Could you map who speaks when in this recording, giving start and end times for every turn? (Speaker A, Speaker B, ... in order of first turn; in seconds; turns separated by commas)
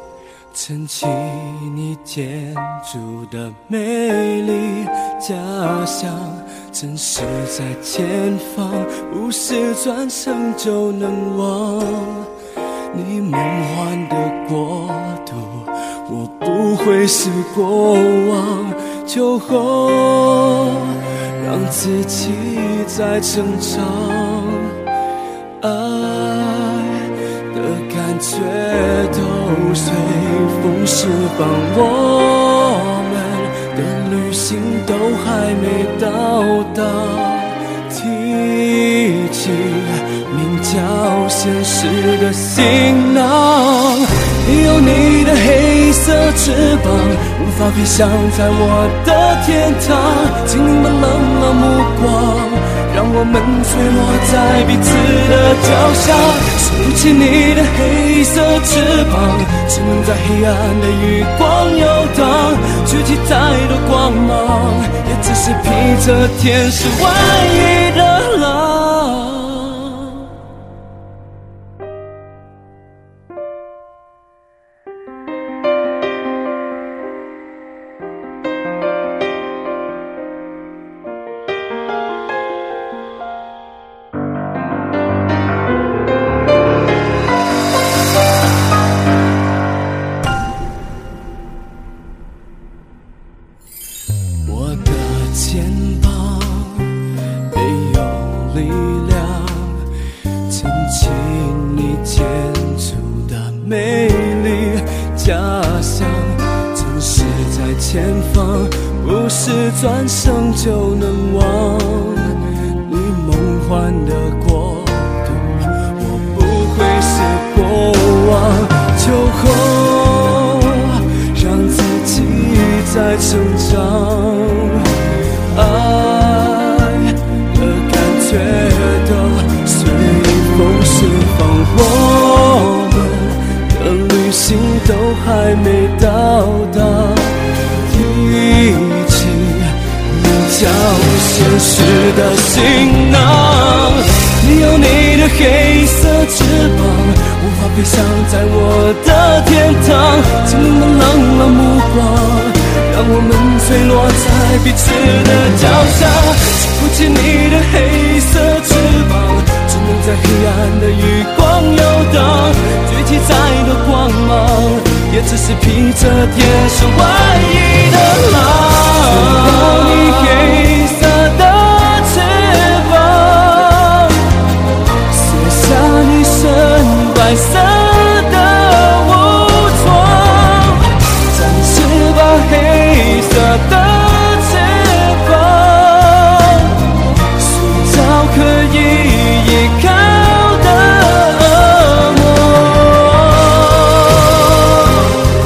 Speaker A: 0.5-12.3, Speaker A: 12.9-24.7, Speaker A: 25.6-70.2, Speaker A: 94.5-96.9, Speaker A: 97.5-99.8, Speaker A: 100.5-125.0, Speaker A: 125.5-174.2, Speaker A: 175.1-195.1